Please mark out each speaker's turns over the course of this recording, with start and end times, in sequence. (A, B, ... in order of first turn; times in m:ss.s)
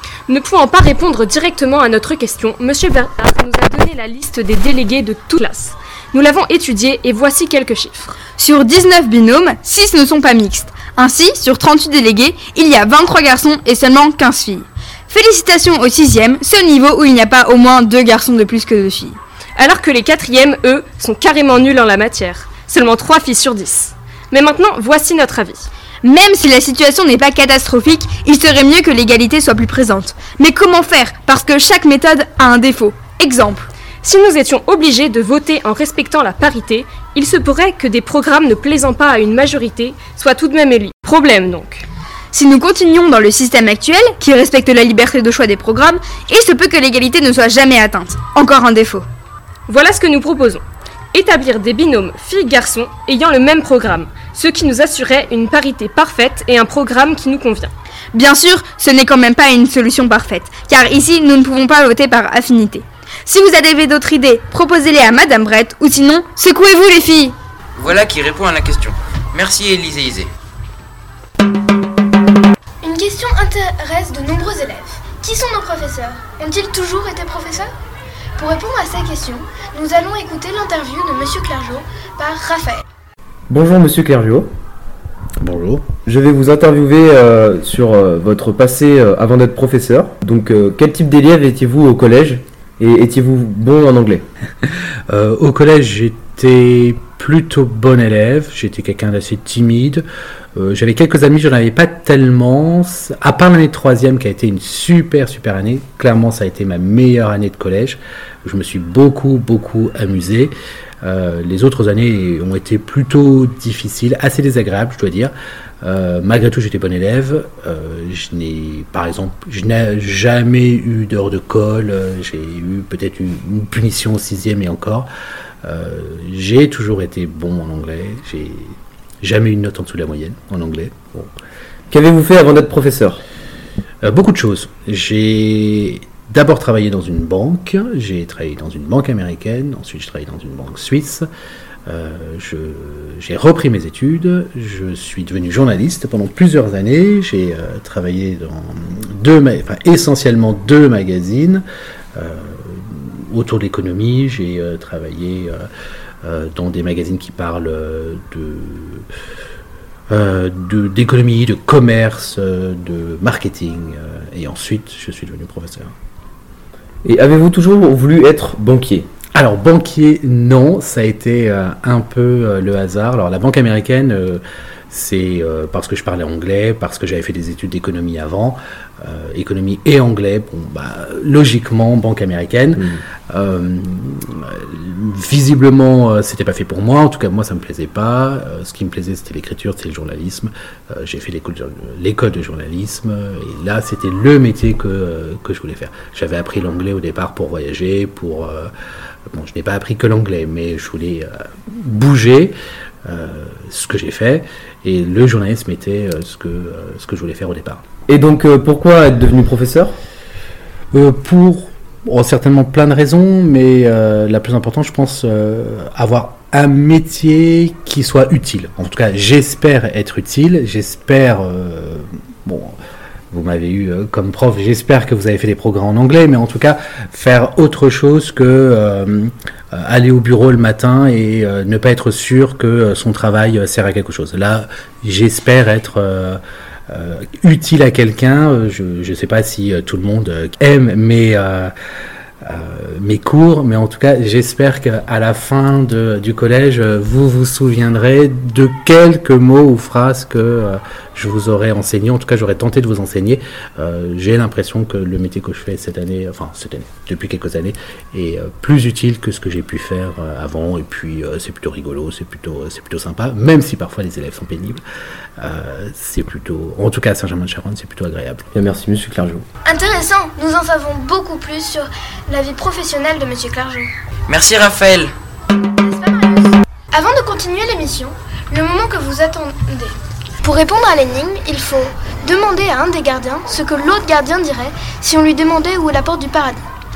0:00.3-0:08.2 A
0:08.3-0:19.2 B
0:19.6-0:25.6 A
0:26.0-0:33.7 B
0:34.0-0:41.8 A
0:42.3-0:49.0 B
0:49.7-0:50.6 A
0:51.1-0:57.7 A
0:58.1-1:07.3 B
1:07.8-1:10.3 C
1:12.8-1:17.7 D
1:18.4-1:22.8 D
1:23.5-1:24.5 E
1:25.4-1:25.9 F
1:26.0-1:34.2 E
1:35.1-1:40.0 F
1:40.5-2:05.1 F
2:05.6-2:11.3 F
2:11.9-2:13.2 E
2:14.0-2:21.2 F
2:21.9-2:35.6 F
2:36.2-2:39.0 F
2:40.1-2:45.9 F
2:47.0-2:49.1 E
2:49.3-3:18.7 F
3:19.3-3:22.5 F
3:23.0-3:27.8 F
3:28.1-3:29.9 E
3:30.9-3:42.8 F
3:43.3-4:01.7 F
4:02.4-4:24.8 F
4:25.4-4:28.4 F
4:28.5-4:29.4 E
4:29.6-4:33.9 D
4:34.3-4:35.1 C
4:35.8-4:46.6 D